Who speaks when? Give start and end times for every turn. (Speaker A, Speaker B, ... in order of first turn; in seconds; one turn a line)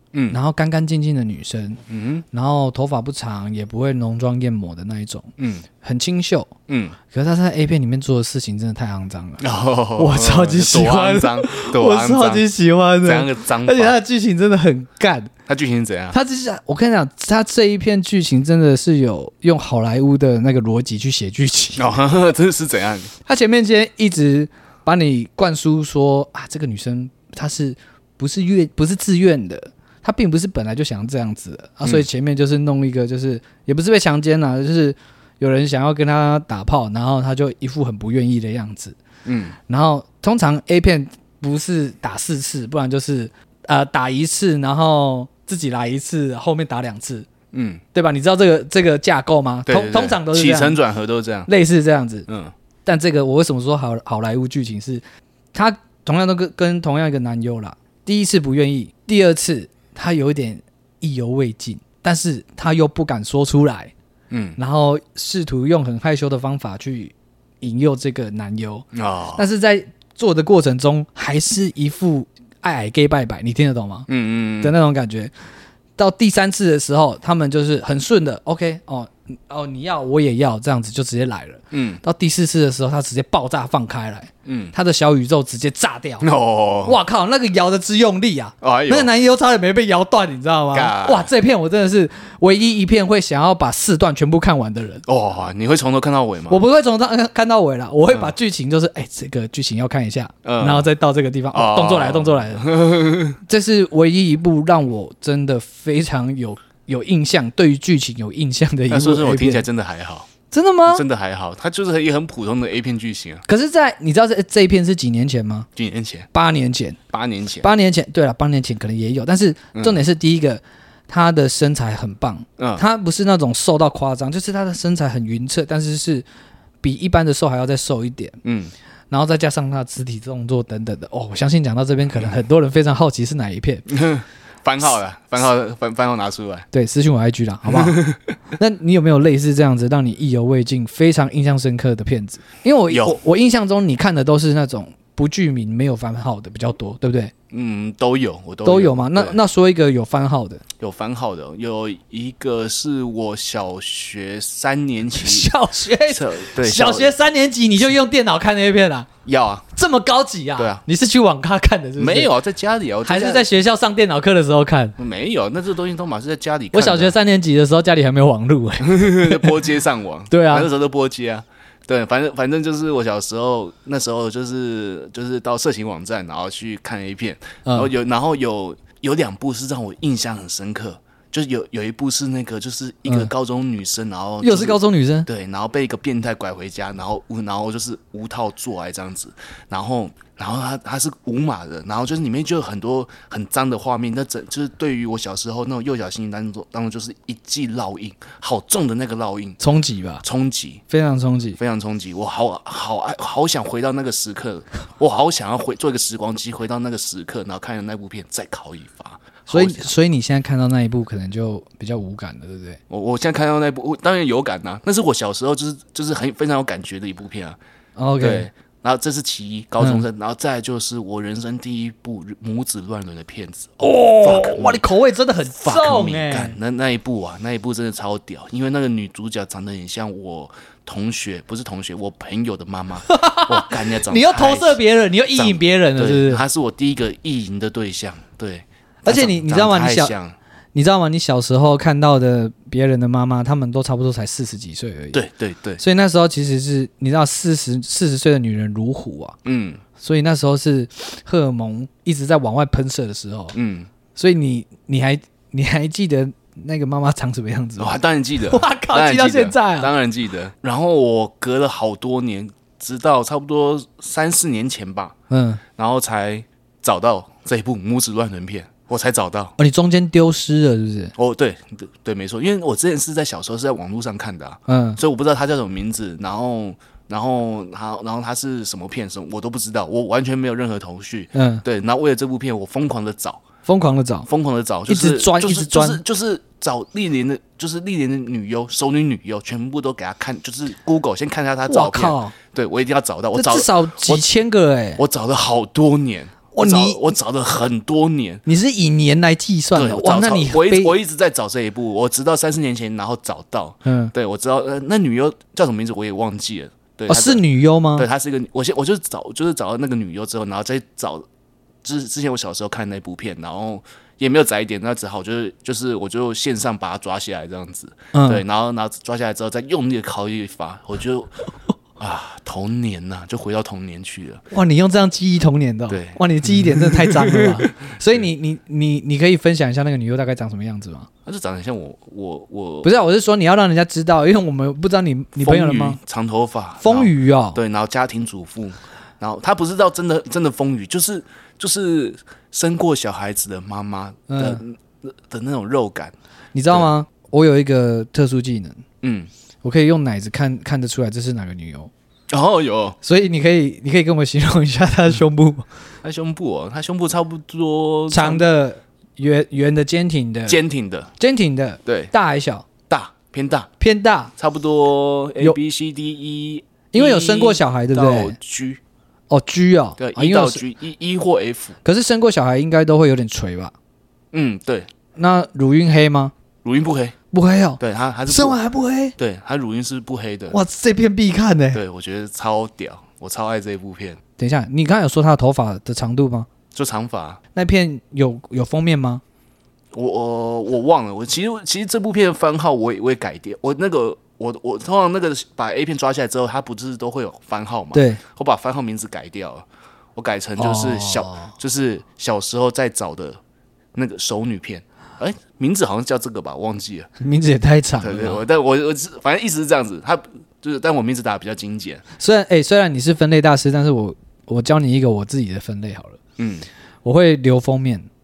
Speaker A: 0.3-1.8
Speaker B: 1.9-2.2
Speaker A: 2.3-5.3
Speaker B: 5.4-5.7
Speaker A: 5.8-6.5
Speaker B: 6.7-7.0
Speaker A: 7.1-9.4
Speaker B: 9.4-12.5
Speaker A: 10.0-15.3
Speaker B: 13.0-14.0
Speaker B: 15.5-16.2
Speaker A: 16.1-21.9
Speaker B: 21.8-23.1
Speaker A: 23.2-39.0
Speaker B: 39.2-39.6
Speaker A: 39.7-47.3
Speaker B: 47.5-47.8
Speaker A: 47.9-50.8
Speaker B: 49.7-51.5
Speaker A: 51.5-52.3
Speaker B: 52.3-52.5
Speaker A: 52.9-55.0
Speaker A: 55.5-63.9
Speaker B: 64.3-64.6
Speaker A: 64.6-74.1
Speaker B: 68.9-69.4
Speaker B: 74.1-74.7
Speaker A: 74.6-75.3
Speaker A: 76.0-86.3
Speaker B: 81.7-82.0
Speaker B: 84.5-84.7
Speaker B: 86.2-87.0
Speaker A: 86.8-95.0
Speaker B: 88.6-89.1
Speaker B: 90.7-91.3
Speaker B: 95.1-96.6
Speaker A: 96.5-102.7
Speaker B: 100.5-100.9
Speaker B: 101.5-103.4
Speaker A: 103.5-109.7
Speaker B: 108.9-110.3
Speaker A: 110.5-111.0
Speaker B: 110.9-113.4
Speaker A: 113.5-115.7
Speaker B: 115.8-116.3
Speaker A: 116.3-117.0
Speaker B: 117.1-117.7
Speaker A: 117.6-126.2
Speaker B: 119.8-120.0
Speaker B: 122.6-122.8
Speaker A: 126.8-128.4
Speaker B: 128.4-128.7
Speaker A: 129.1-133.9
Speaker B: 133.9-136.7
Speaker A: 136.7-138.1
Speaker B: 137.7-138.3
Speaker A: 138.6-147.3
Speaker B: 142.9-143.2
Speaker B: 147.5-149.4
Speaker A: 148.7-150.6
Speaker B: 150.8-155.5
Speaker A: 155.1-159.1
Speaker B: 156.1-157.1
Speaker B: 159.2-159.7
Speaker A: 159.7-162.3
Speaker B: 160.6-160.8
Speaker B: 162.0-163.5
Speaker A: 163.1-165.0
Speaker B: 165.0-167.2
Speaker A: 166.7-169.7
Speaker B: 168.8-199.6
Speaker A: 170.3-170.7
Speaker A: 177.7-177.9
Speaker A: 183.1-183.3
Speaker A: 184.4-185.3
Speaker A: 199.6-200.2
Speaker B: 200.2-200.8
Speaker A: 200.9-201.6
Speaker B: 201.6-209.9
Speaker A: 209.5-212.8
Speaker B: 212.9-217.6
Speaker A: 218.0-218.5
Speaker B: 218.2-224.8
Speaker A: 219.8-220.1
Speaker A: 223.8-226.6
Speaker B: 225.6-234.8
Speaker A: 233.1-236.4
Speaker B: 235.3-240.4
Speaker A: 239.1-240.1
Speaker A: 240.8-245.2
Speaker B: 245.1-245.8
Speaker A: 245.8-249.4
Speaker B: 249.4-249.8
Speaker A: 250.0-253.6
Speaker B: 253.5-253.9
Speaker A: 254.2-259.9
Speaker B: 257.8-265.1
Speaker A: 265.3-265.6
Speaker B: 265.8-269.6
Speaker A: 269.6-271.1
Speaker B: 271.2-283.4
Speaker A: 274.7-275.0
Speaker A: 281.3-281.6
Speaker A: 283.7-284.3
Speaker B: 284.3-294.3
Speaker A: 284.9-286.0
Speaker A: 291.7-292.4
Speaker A: 293.3-295.0
Speaker B: 295.0-298.4
Speaker A: 296.5-297.1
Speaker A: 298.5-300.9
Speaker B: 299.8-311.3
Speaker A: 303.9-304.1
Speaker A: 307.1-308.1
Speaker B: 311.8-321.3
Speaker A: 318.1-318.4
Speaker B: 322.0-324.4
Speaker A: 324.5-331.1
Speaker B: 325.9-328.2
Speaker B: 331.3-333.0
Speaker A: 332.8-336.0
Speaker B: 335.4-346.1
Speaker A: 336.8-337.6
Speaker A: 344.3-344.6
Speaker A: 346.5-348.8
Speaker B: 349.0-349.3
Speaker A: 349.6-351.9
Speaker B: 352.3-353.0
Speaker A: 353.0-355.7
Speaker B: 356.0-358.5
Speaker A: 358.1-360.6
Speaker B: 360.5-361.1
Speaker A: 361.2-362.7
Speaker B: 361.9-362.1
Speaker B: 362.9-363.7
Speaker A: 363.8-364.3
Speaker B: 364.4-368.8
Speaker A: 366.9-368.4
Speaker A: 369.3-370.6
Speaker B: 370.0-371.8
Speaker A: 371.8-373.7
Speaker B: 374.3-374.9
Speaker A: 375.2-376.3
Speaker B: 376.6-377.1
Speaker A: 377.3-379.2
Speaker B: 377.8-378.6
Speaker B: 379.2-380.6
Speaker A: 380.5-381.8
Speaker B: 381.7-384.2
Speaker A: 384.4-386.5
Speaker B: 386.7-387.4
Speaker A: 387.6-389.2
Speaker B: 389.9-403.4
Speaker A: 397.9-398.2
Speaker A: 400.6-401.5
Speaker B: 403.9-407.1
Speaker A: 407.2-408.4
Speaker B: 408.0-412.0
Speaker A: 412.2-416.2
Speaker B: 416.4-416.7
Speaker A: 417.0-418.1